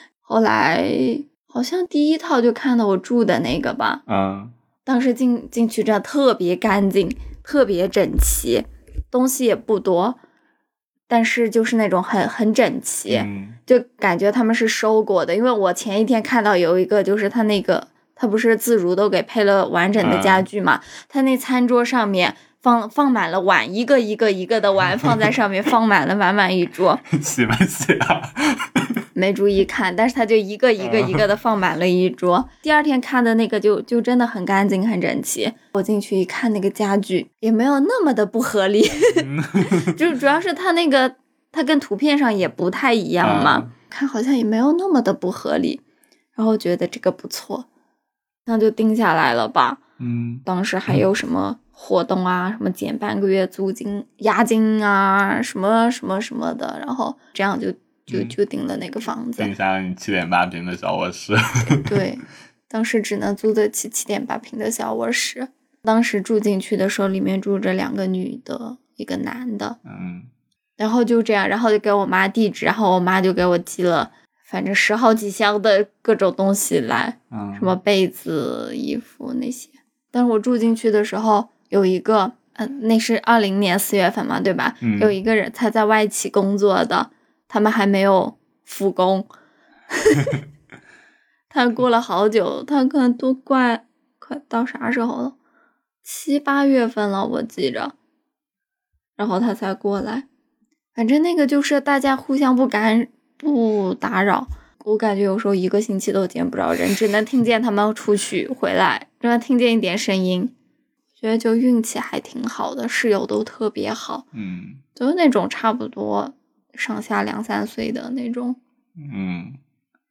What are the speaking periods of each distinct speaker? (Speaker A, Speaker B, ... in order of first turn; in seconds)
Speaker A: 0.2-4.0, 4.8-10.2, 11.1-27.0, 29.1-45.8, 46.4-47.6, 48.5-49.8, 50.4-59.5, 61.9-69.8, 70.8-89.3, 89.9-90.4, 91.5-95.3, 96.0-97.9, 99.2-100.3, 100.9-110.5, 111.2-114.2, 115.0-118.6
Speaker B: 4.1-4.5, 13.1-13.6, 20.0-20.5, 27.1-29.0, 30.8-31.2, 39.1-40.0, 43.2-43.7, 50.0-51.0, 58.1-58.3, 59.4-62.0, 69.8-70.3, 77.3-77.8, 84.8-85.2, 114.3-114.8, 119.0-119.6